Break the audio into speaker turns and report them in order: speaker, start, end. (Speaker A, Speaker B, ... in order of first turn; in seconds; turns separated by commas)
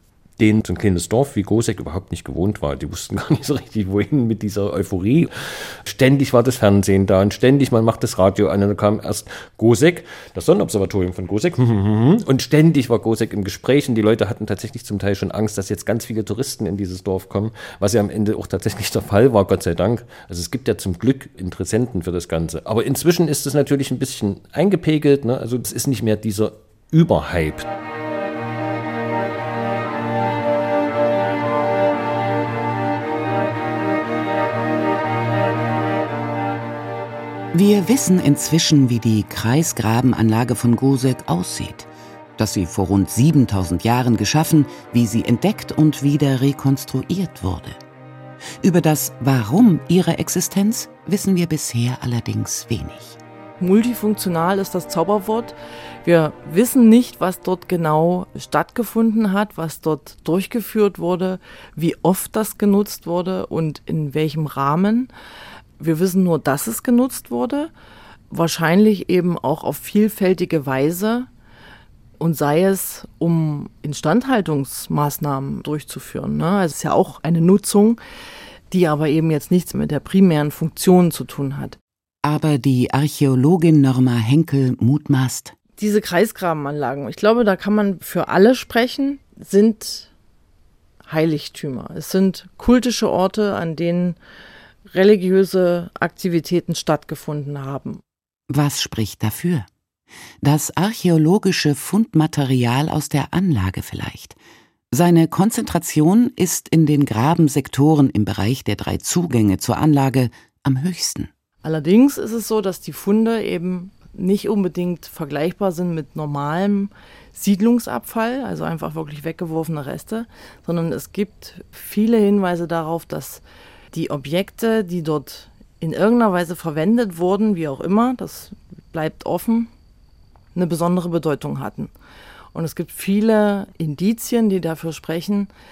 Speaker A: 0.4-5.3, Speaker A: 5.8-27.7, Speaker B: 37.5-47.8, Speaker B: 48.6-53.2, Speaker C: 53.6-65.1, Speaker C: 65.8-67.7, Speaker C: 68.3-71.3, Speaker C: 72.2-78.0, Speaker C: 78.7-81.8, Speaker B: 82.2-85.5, Speaker C: 85.8-90.1, Speaker C: 91.0-94.2, Speaker C: 94.9-98.0, Speaker B: 98.5-99.7, Speaker B: 100.4-104.4, Speaker B: 104.9-111.3, Speaker C: 111.6-129.7, Speaker C: 130.5-131.9, Speaker C: 132.5-135.5